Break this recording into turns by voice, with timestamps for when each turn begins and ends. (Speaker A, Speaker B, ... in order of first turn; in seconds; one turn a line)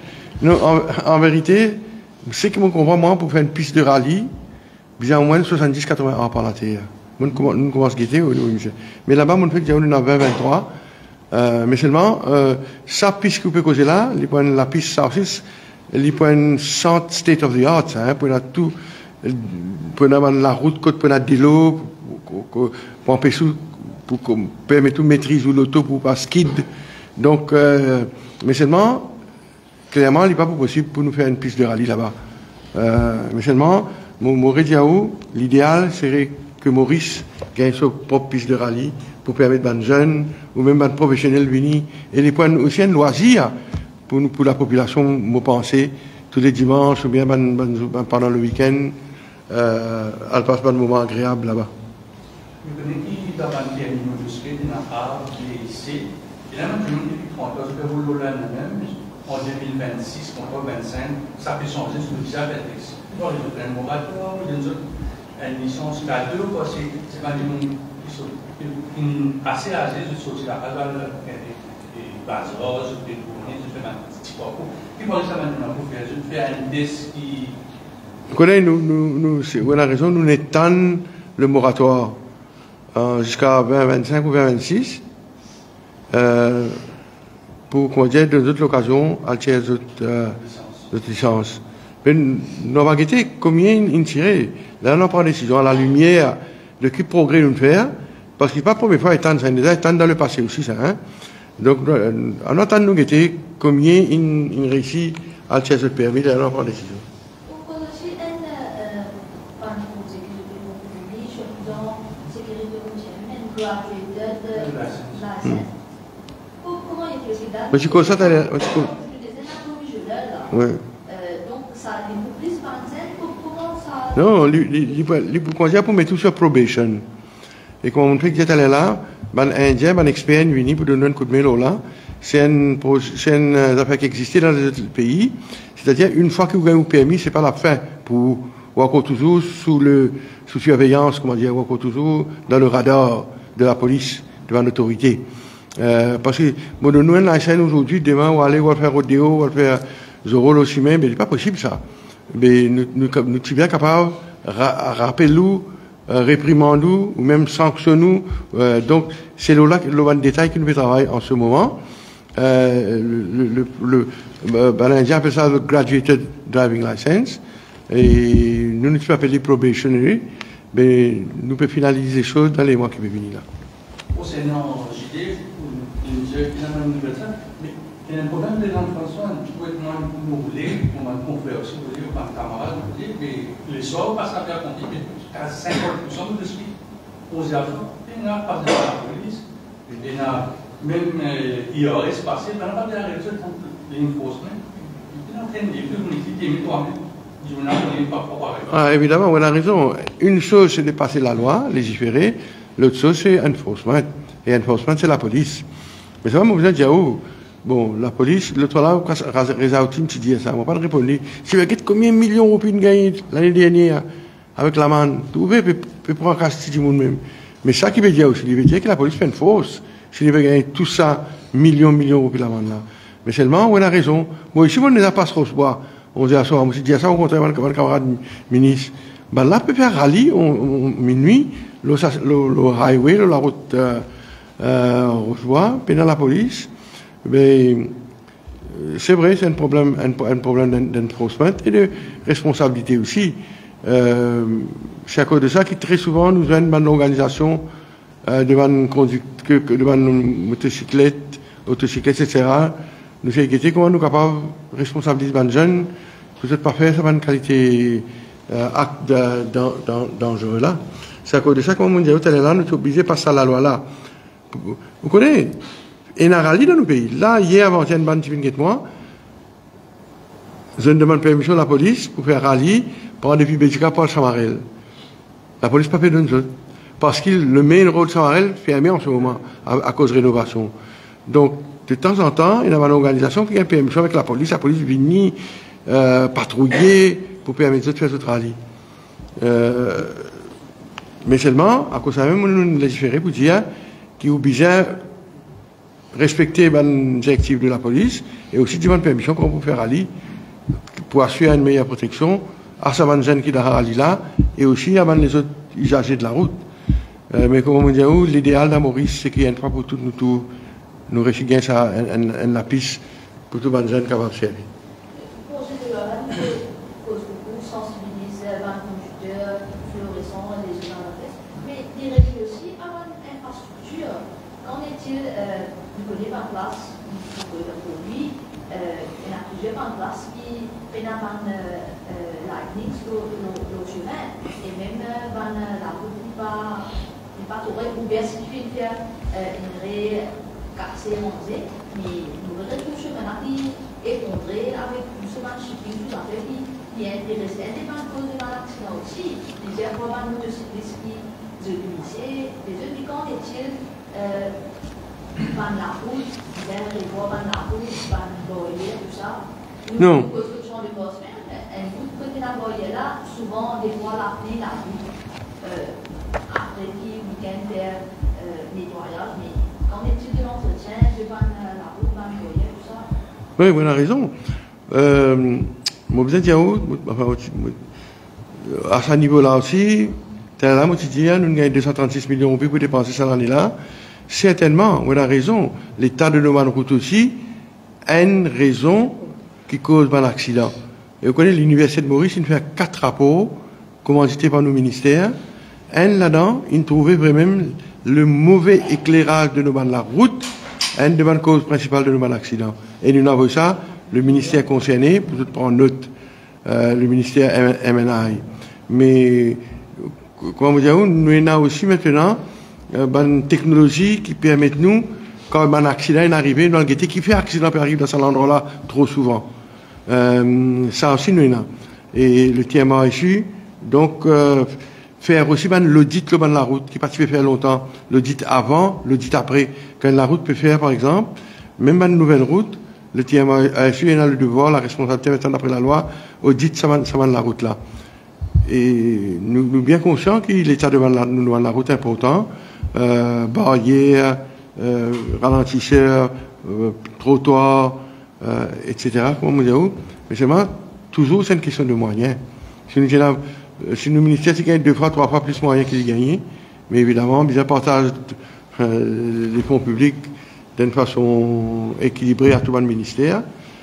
Speaker A: 0.4-4.3
Speaker A: 5.0-10.7
Speaker A: 11.3-26.6
Speaker A: 27.2-29.1
Speaker A: 29.9-32.1
Speaker A: 32.7-43.5
Speaker A: 44.1-49.0
Speaker A: 49.5-51.7
Speaker B: 52.6-77.6
Speaker A: 78.3-82.2
Speaker A: 82.9-85.0
Speaker A: 86.1-86.8
Speaker A: 87.7-90.4
Speaker B: 90.4-90.9
Speaker A: 90.9-101.0
Speaker A: 101.6-107.0
Speaker C: 107.5-115.7
Speaker B: 114.5-115.2
Speaker C: 116.6-120.5
Speaker A: 117.7-118.9
Speaker A: 120.5-120.8
Speaker C: 121.0-124.3
Speaker A: 124.1-127.0
Speaker A: 127.8-145.2
Speaker A: 145.8-161.8
Speaker A: 162.3-173.4
Speaker B: 174.1-186.7
Speaker B: 187.3-198.7
Speaker A: 198.7-205.7
Speaker A: 206.2-234.1
Speaker A: 234.6-236.7
Speaker A: 237.2-237.9
Speaker A: 238.7-247.6
Speaker A: 248.2-263.8
Speaker A: 264.5-265.6
Speaker A: 266.1-268.9
Speaker A: 270.8-274.6
Speaker A: 275.6-280.7
Speaker A: 281.3-288.6
Speaker A: 289.4-290.3
Speaker A: 291.2-293.7
Speaker A: 294.2-295.0
Speaker A: 296.1-300.1
Speaker A: 300.9-306.6
Speaker A: 307.3-310.5
Speaker A: 311.1-314.7
Speaker C: 315.1-354.6
Speaker C: 355.4-365.0
Speaker A: 360.0-360.3
Speaker C: 365.6-373.1
Speaker A: 373.6-374.3
Speaker A: 374.9-377.8
Speaker A: 378.6-383.8
Speaker A: 384.3-387.4
Speaker A: 388.1-395.3
Speaker A: 395.9-406.1
Speaker A: 406.6-419.5
Speaker A: 420.1-437.8
Speaker A: 438.6-463.4